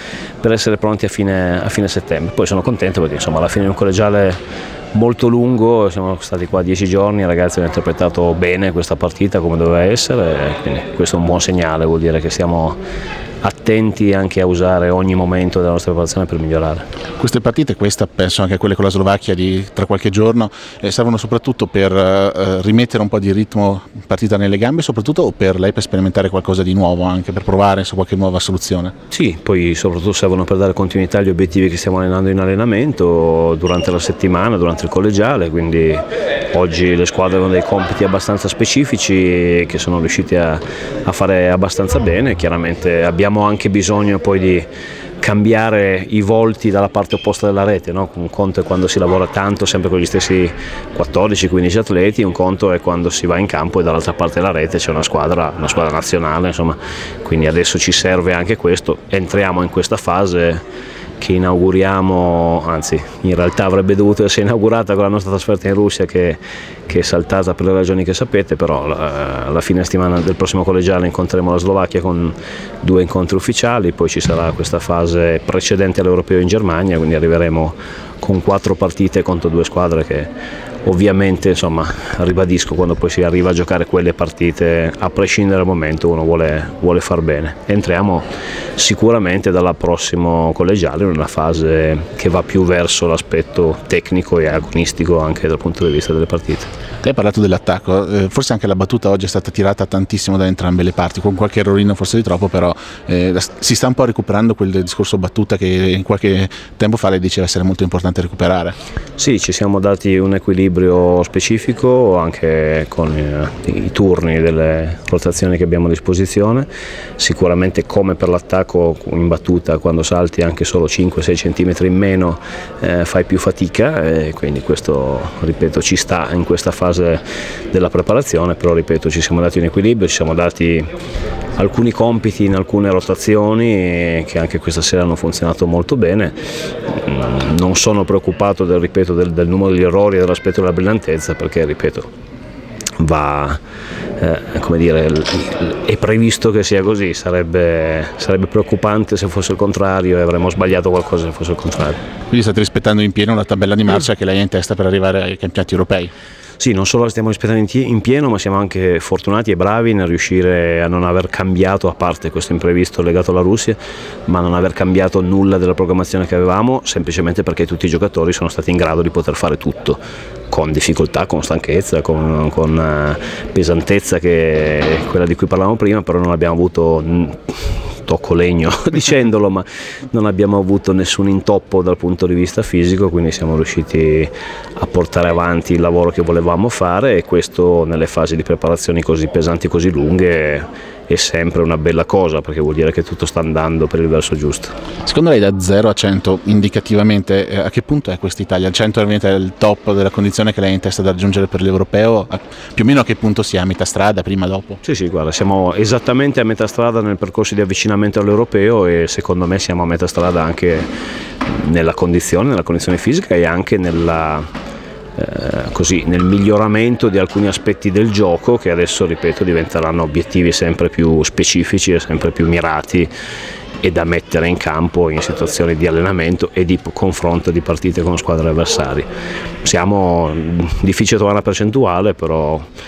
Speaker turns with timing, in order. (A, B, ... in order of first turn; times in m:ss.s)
0:00.4-0:04.4 A
0:04.9-0:12.8 A
0:13.4-0:16.8 A
0:17.2-0:28.9 B
0:29.1-0:44.6 A
0:45.2-1:00.6 A
1:01.2-1:20.3 A
1:20.8-1:36.7 A
1:37.0-1:48.7 B
1:49.2-1:56.7 A
1:57.2-2:10.9 A
2:11.6-2:22.1 A
2:23.0-2:23.6 A
2:24.2-2:32.0 A
2:32.3-2:36.1 B
2:36.6-3:14.7 A
3:15.0-3:24.8 B
3:24.8-3:30.9 A
3:31.4-3:34.4 A
3:35.2-3:43.1 A
3:43.8-3:49.1 A
3:49.6-3:52.7 A